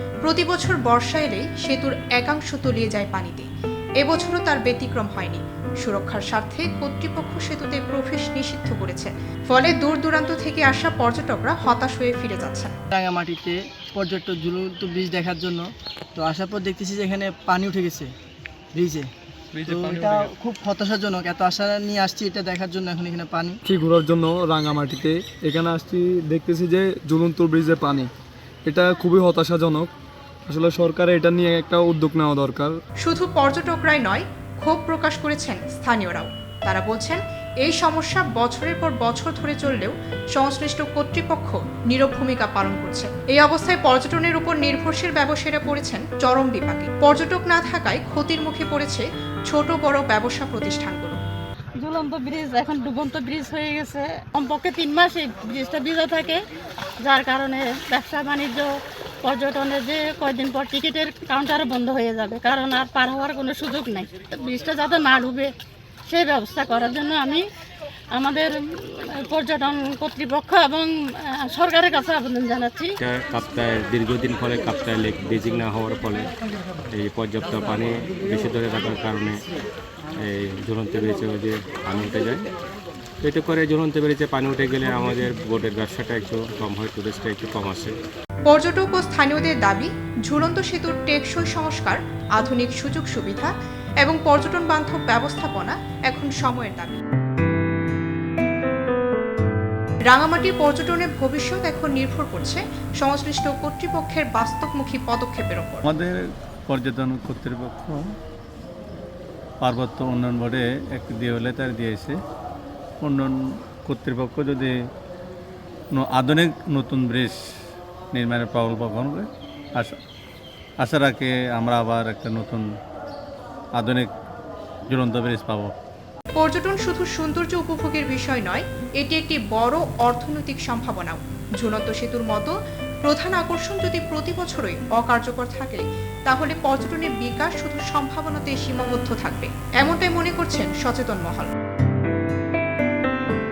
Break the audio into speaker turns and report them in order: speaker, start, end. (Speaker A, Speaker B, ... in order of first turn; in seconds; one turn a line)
Speaker A: 0.2-3.5
Speaker A: 4.0-12.7
Speaker B: 12.9-18.1
Speaker B: 18.7-19.1
Speaker C: 19.5-20.3
Speaker B: 19.7-23.6
Speaker C: 23.6-28.1
Speaker C: 28.6-29.9
Speaker C: 30.4-32.8
Speaker A: 33.0-51.2
Speaker D: 51.8-56.4
Speaker D: 57.0-58.7
Speaker D: 59.2-65.5
Speaker D: 66.1-67.5
Speaker D: 68.1-73.0
Speaker E: 73.0-76.3
Speaker E: 76.9-79.4
Speaker E: 80.2-82.5
Speaker E: 83.2-88.0
Speaker A: 88.5-97.0
Speaker A: 100.1-105.8
Speaker F: 105.8-108.1
Speaker F: 109.6-112.2
Speaker F: 113.0-114.7
Speaker F: 115.9-117.4
Speaker F: 118.1-120.0
Speaker F: 120.8-122.7
Speaker F: 123.8-124.1
Speaker F: 124.9-125.7
Speaker A: 126.4-141.5